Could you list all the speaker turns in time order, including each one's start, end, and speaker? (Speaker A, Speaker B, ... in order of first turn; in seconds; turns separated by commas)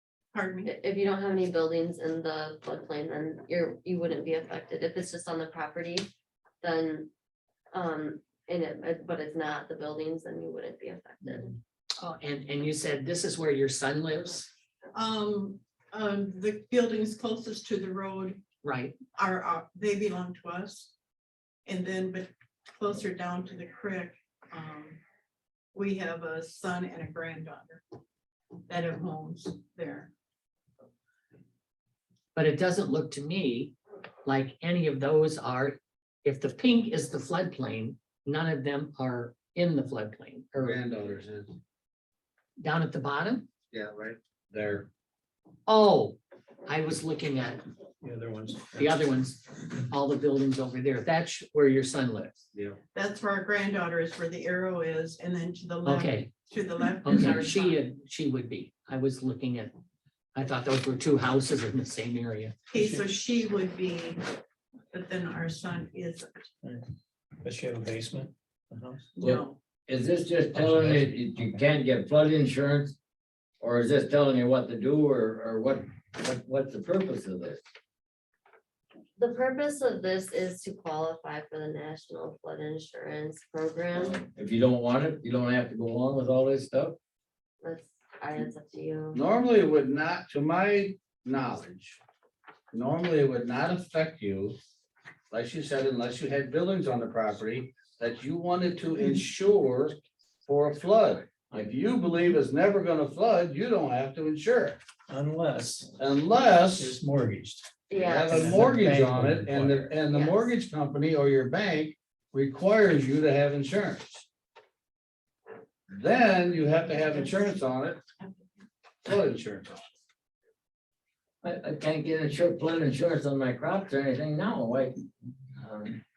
Speaker A: 0.3-0.7, Speaker B: 0.7-6.1, Speaker B: 6.6-7.1, Speaker B: 7.7-11.6, Speaker C: 12.0-14.5, Speaker A: 14.9-18.4, Speaker C: 18.6-19.0, Speaker A: 19.1-20.9, Speaker A: 21.6-25.0, Speaker A: 25.7-27.8, Speaker A: 28.7-30.1, Speaker C: 32.4-40.8, Speaker D: 40.6-41.5, Speaker C: 42.6-43.5, Speaker D: 43.7-44.9, Speaker C: 45.7-47.6, Speaker E: 48.0-49.0, Speaker C: 48.8-52.5, Speaker A: 52.9-57.8, Speaker C: 55.8-56.3, Speaker C: 57.0-59.8, Speaker C: 60.4-63.0, Speaker A: 62.7-64.2, Speaker A: 64.9-66.5, Speaker E: 67.4-69.2, Speaker A: 69.2-69.6, Speaker F: 69.2-73.0, Speaker E: 70.5-71.1, Speaker F: 73.6-77.6, Speaker B: 79.2-84.2, Speaker F: 84.0-87.0, Speaker B: 87.6-89.2, Speaker D: 89.1-92.0, Speaker D: 92.7-94.6, Speaker D: 95.3-104.8, Speaker E: 105.1-106.0, Speaker D: 106.0-107.0, Speaker E: 106.8-107.7, Speaker B: 107.9-108.5, Speaker D: 107.9-114.3, Speaker E: 108.3-109.9, Speaker B: 110.1-110.5, Speaker D: 115.9-118.0, Speaker D: 119.0-119.8, Speaker F: 121.4-125.0, Speaker F: 125.6-126.0